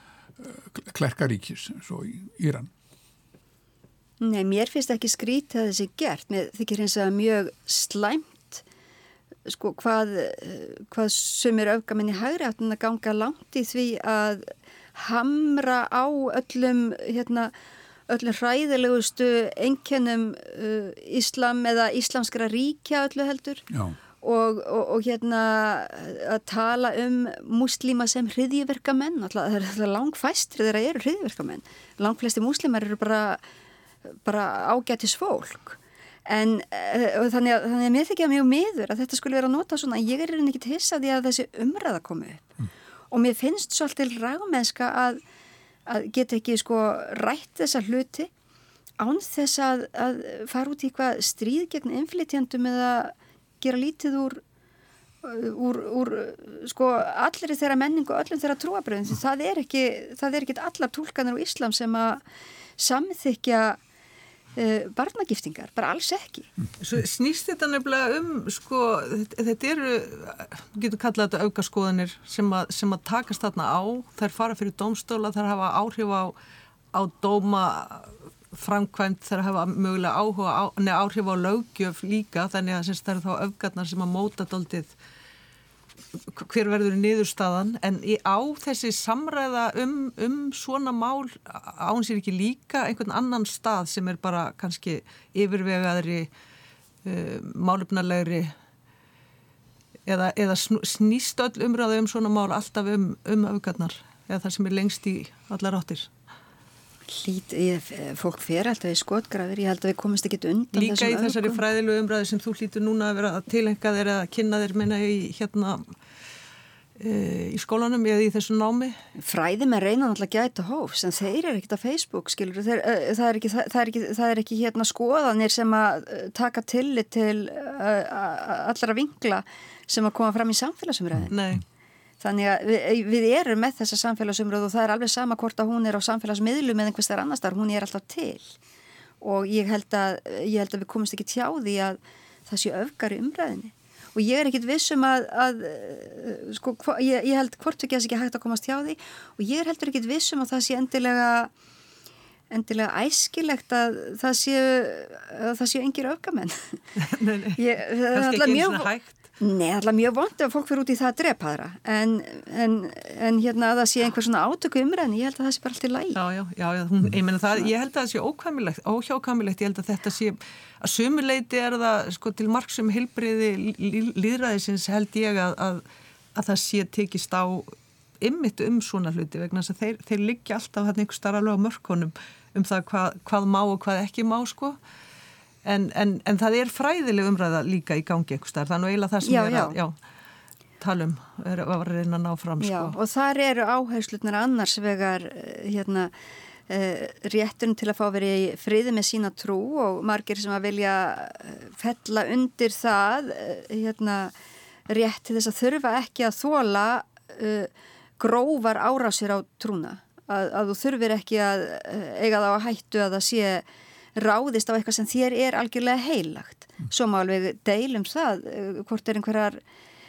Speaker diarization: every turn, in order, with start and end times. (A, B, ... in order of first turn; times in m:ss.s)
0:00.4-0:02.7 A
0:04.2-0:08.6 B
0:09.5-0:17.5 B
0:18.1-0:23.6 B
0:23.7-0:24.0 A
0:24.2-0:33.4 B
0:34.1-0:42.5 B
0:43.1-0:45.2 B
0:45.9-0:48.3 B
0:49.0-0:54.4 B
0:55.2-1:02.2 B
1:02.8-1:03.8 B
1:04.6-1:06.5 B
1:06.8-1:16.4 C
1:16.9-1:24.9 C
1:26.3-1:36.3 C
1:37.0-1:38.5 C
1:40.0-1:46.1 C
1:47.1-1:51.6 B
1:50.7-1:55.9 C
1:57.0-1:59.0 C
1:59.2-2:11.3 B
2:11.3-2:11.6 C
2:12.2-2:18.6 B
2:19.2-2:31.5 B
2:32.5-2:36.8 B
2:37.0-2:39.2 C
2:37.6-2:46.2 B
2:46.2-2:55.8 C
2:56.3-3:04.8 C
3:05.6-3:09.9 C
3:09.2-3:09.8 B
3:10.8-3:13.0 C
3:12.6-3:16.1 B
3:16.7-3:24.3 B
3:24.9-3:39.6 B